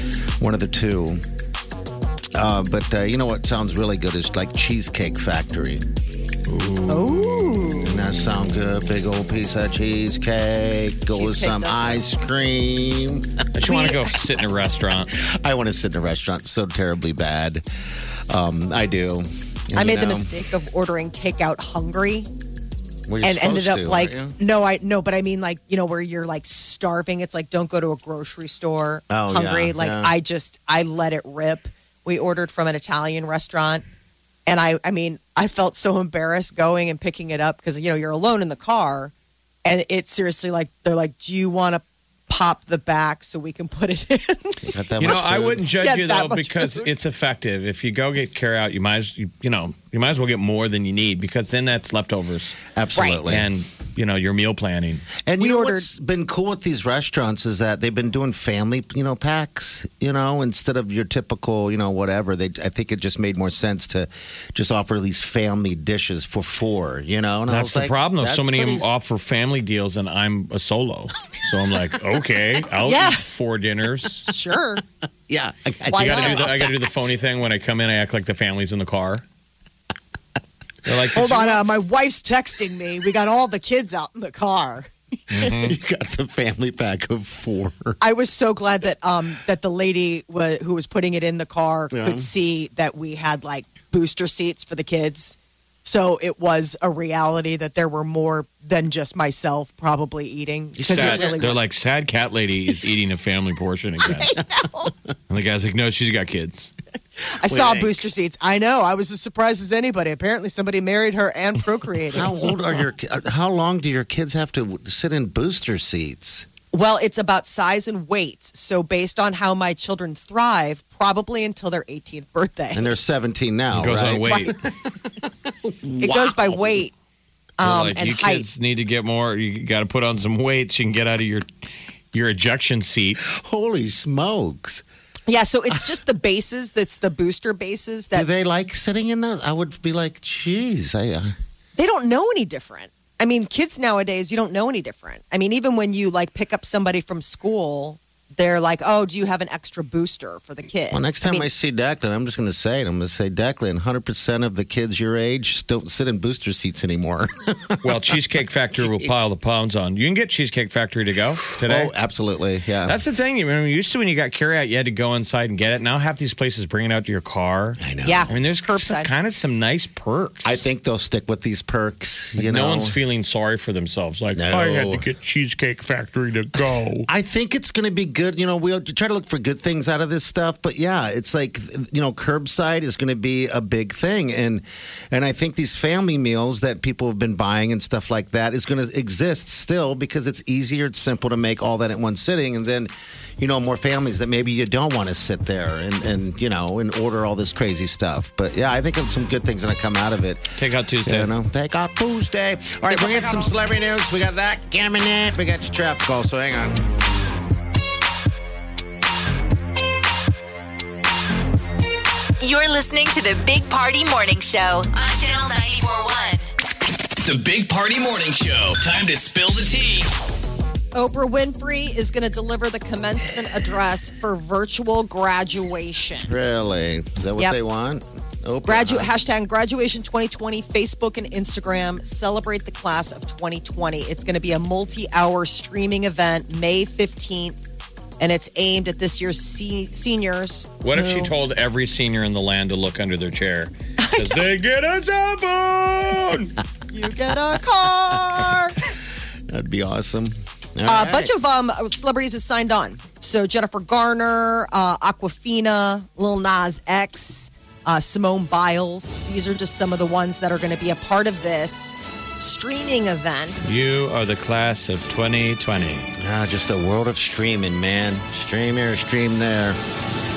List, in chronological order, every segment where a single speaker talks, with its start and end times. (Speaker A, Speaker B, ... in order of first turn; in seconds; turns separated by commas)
Speaker A: 0.4-1.2, Speaker A: 2.3-5.8, Speaker B: 6.5-7.7, Speaker C: 6.9-7.9, Speaker A: 7.8-13.4, Speaker C: 11.1-12.0, Speaker B: 13.5-15.1, Speaker C: 13.6-14.0, Speaker A: 15.1-17.6, Speaker A: 18.3-20.3, Speaker C: 19.8-22.3, Speaker A: 23.1-24.3, Speaker C: 23.2-33.8, Speaker A: 29.1-30.1, Speaker C: 34.5-39.1, Speaker C: 39.6-45.1, Speaker A: 44.6-45.6, Speaker B: 45.0-52.6, Speaker C: 45.8-46.9, Speaker A: 52.7-53.5, Speaker C: 53.0-53.2, Speaker B: 53.2-55.1, Speaker A: 55.2-68.8, Speaker C: 55.4-55.9, Speaker B: 67.5-74.2, Speaker C: 72.8-73.2, Speaker C: 74.2-74.8, Speaker A: 75.3-76.9, Speaker C: 75.9-76.7, Speaker B: 75.9-79.2, Speaker B: 80.8-81.6, Speaker C: 81.1-84.9, Speaker B: 85.3-85.8, Speaker A: 85.4-88.0, Speaker C: 88.0-101.7, Speaker A: 91.9-92.3, Speaker A: 100.8-101.4, Speaker B: 100.9-104.4, Speaker B: 105.3-106.7, Speaker C: 107.2-112.5, Speaker A: 107.4-108.0, Speaker A: 112.1-116.5, Speaker C: 116.7-122.9, Speaker A: 122.7-124.9, Speaker B: 123.7-124.5, Speaker A: 125.5-126.8, Speaker C: 126.0-126.9, Speaker C: 127.6-128.4, Speaker B: 127.6-131.4, Speaker B: 132.1-133.2, Speaker A: 133.2-134.8, Speaker C: 135.3-138.2, Speaker A: 138.1-141.3, Speaker C: 141.8-151.5, Speaker A: 150.9-158.0, Speaker B: 157.8-161.9, Speaker A: 161.6-163.0, Speaker B: 162.8-170.7, Speaker A: 167.8-168.3, Speaker C: 168.0-169.1, Speaker A: 170.4-172.9, Speaker B: 172.4-177.0, Speaker A: 174.3-175.1, Speaker A: 176.5-200.5, Speaker B: 200.6-201.3, Speaker A: 201.1-206.8, Speaker C: 202.9-203.5, Speaker D: 212.4-216.4, Speaker E: 217.2-220.1, Speaker C: 220.9-226.3, Speaker A: 226.2-229.1, Speaker C: 228.6-237.6, Speaker C: 238.2-241.3, Speaker B: 240.8-246.6, Speaker C: 244.0-244.4, Speaker C: 246.9-248.8, Speaker A: 249.5-251.3, Speaker C: 250.8-263.8, Speaker B: 263.6-266.1, Speaker A: 266.2-269.8